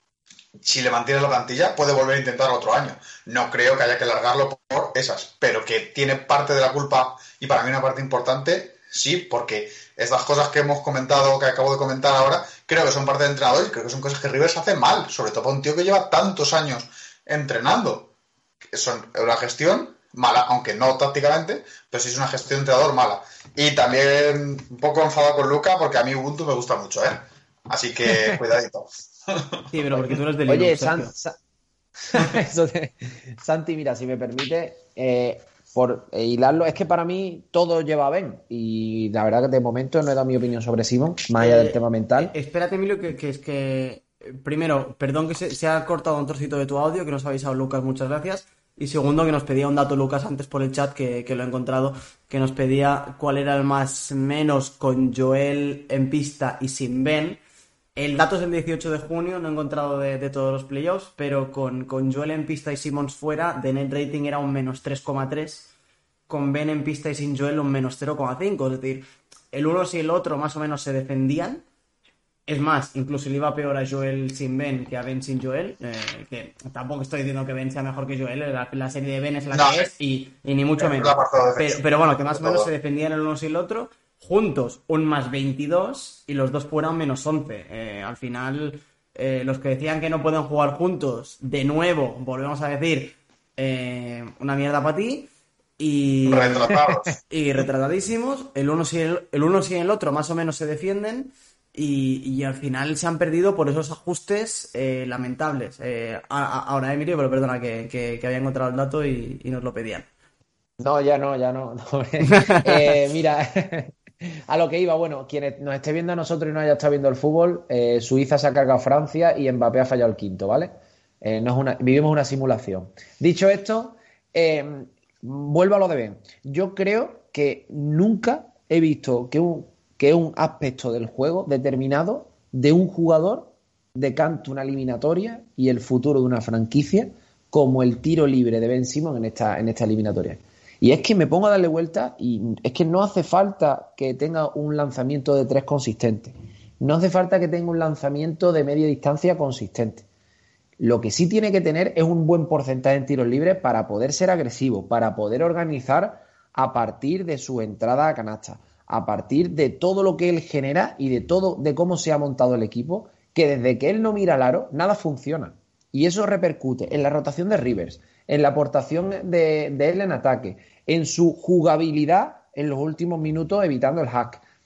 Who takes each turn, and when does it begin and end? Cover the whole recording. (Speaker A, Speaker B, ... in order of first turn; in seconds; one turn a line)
Speaker A: 0.6-18.1
Speaker A: 18.7-29.6
Speaker B: 29.7-31.1
Speaker C: 30.5-31.4
Speaker C: 32.1-42.3
Speaker B: 41.4-57.4
Speaker B: 58.0-65.7
Speaker B: 66.3-71.6
Speaker B: 72.5-110.1
Speaker A: 79.5-79.9
Speaker A: 80.8-82.7
Speaker A: 96.3-97.2
Speaker C: 110.8-120.7
Speaker B: 112.2-113.0
Speaker C: 121.2-150.1
Speaker C: 150.8-174.4